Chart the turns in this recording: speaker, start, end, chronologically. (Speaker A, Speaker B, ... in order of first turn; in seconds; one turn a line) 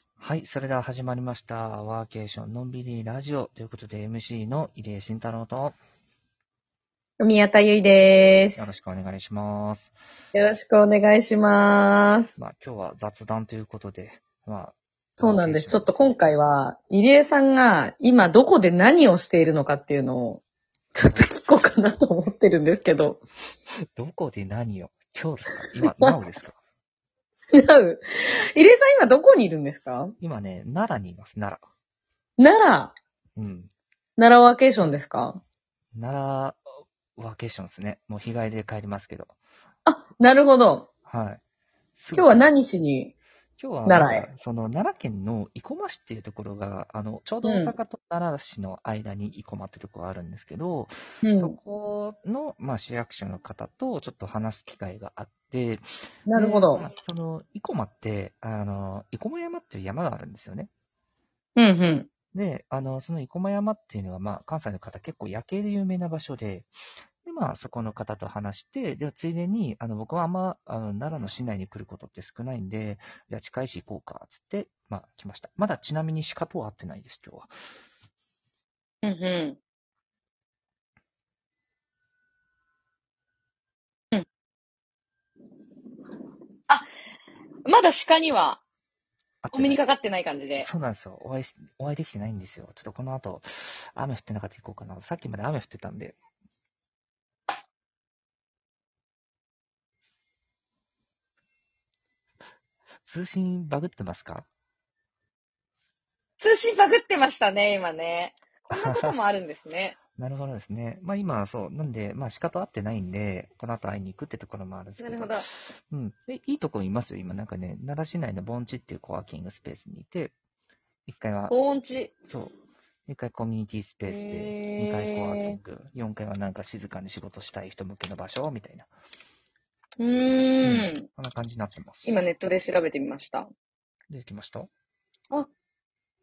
Speaker A: 0.2-5.8
Speaker B: 7.2-8.7
Speaker A: 8.6-10.0
Speaker B: 10.3-12.4
Speaker A: 12.4-16.2
Speaker B: 15.2-20.4
Speaker B: 20.9-23.2
Speaker A: 23.9-26.6
Speaker B: 25.8-26.1
Speaker B: 27.5-30.1
Speaker A: 30.2-31.6
Speaker B: 32.4-32.9
Speaker A: 33.4-33.7
Speaker B: 34.2-35.4
Speaker A: 36.0-36.6
Speaker A: 37.2-39.4
Speaker B: 39.9-40.9
Speaker A: 41.1-41.4
Speaker A: 42.0-42.5
Speaker B: 42.1-43.1
Speaker A: 43.6-60.7
Speaker B: 43.9-44.3
Speaker B: 47.4-47.7
Speaker B: 51.2-51.6
Speaker B: 56.3-56.9
Speaker B: 61.6-62.1
Speaker A: 62.3-66.7
Speaker A: 67.2-77.5
Speaker B: 79.0-79.6
Speaker B: 87.7-88.6
Speaker A: 89.4-89.8
Speaker B: 89.5-90.7
Speaker A: 90.6-96.2
Speaker A: 103.1-104.5
Speaker B: 106.4-110.0
Speaker A: 108.7-109.2
Speaker A: 110.2-120.3
Speaker B: 115.0-115.5
Speaker A: 121.1-121.5
Speaker B: 121.5-122.1
Speaker A: 122.3-122.5
Speaker A: 123.1-128.9
Speaker B: 124.0-125.6
Speaker B: 130.0-131.1
Speaker A: 130.6-132.2
Speaker B: 132.1-133.5
Speaker A: 134.1-134.7